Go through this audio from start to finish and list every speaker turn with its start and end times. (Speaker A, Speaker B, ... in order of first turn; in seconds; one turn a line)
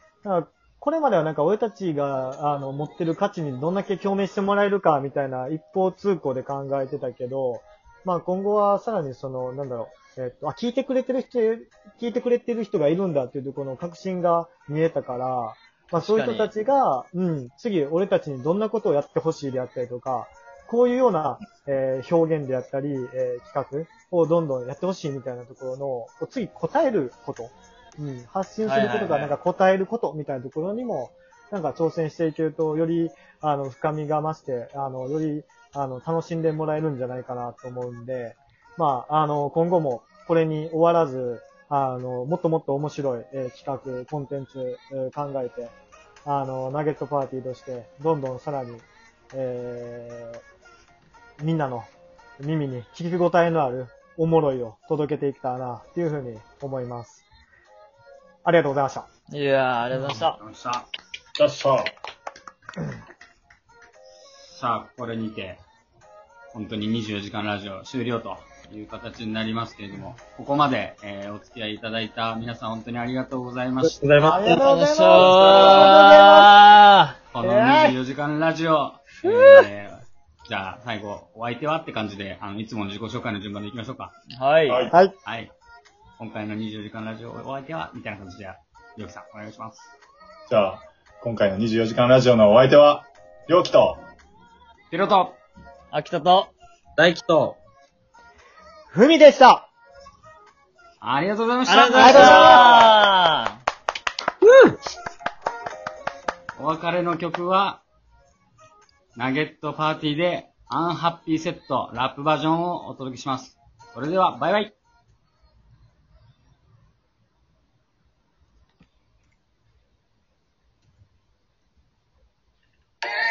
Speaker A: 0.2-45.7
Speaker B: 15.9-16.5
Speaker B: 28.6-29.4
Speaker A: 46.2-50.4
Speaker A: 51.4-57.2
Speaker A: 58.4-59.1
Speaker B: 59.3-60.4
Speaker C: 60.1-60.9
Speaker D: 61.4-61.9
Speaker C: 64.5-65.6
Speaker C: 66.5-74.0
Speaker E: 73.8-75.4
Speaker A: 74.2-76.6
Speaker B: 74.5-77.1
Speaker C: 75.5-76.0
Speaker C: 77.3-84.1
Speaker A: 77.4-78.0
Speaker B: 79.2-79.6
Speaker B: 84.4-84.9
Speaker D: 84.7-84.9
Speaker A: 84.9-85.2
Speaker C: 85.2-85.5
Speaker C: 86.2-89.8
Speaker D: 90.5-94.0
Speaker C: 94.9-95.4
Speaker B: 95.9-96.5
Speaker E: 97.0-97.6
Speaker A: 98.9-99.7
Speaker C: 101.0-102.8
Speaker B: 101.7-103.6
Speaker A: 102.0-102.7
Speaker D: 102.4-102.7
Speaker C: 106.6-107.8
Speaker C: 109.2-114.7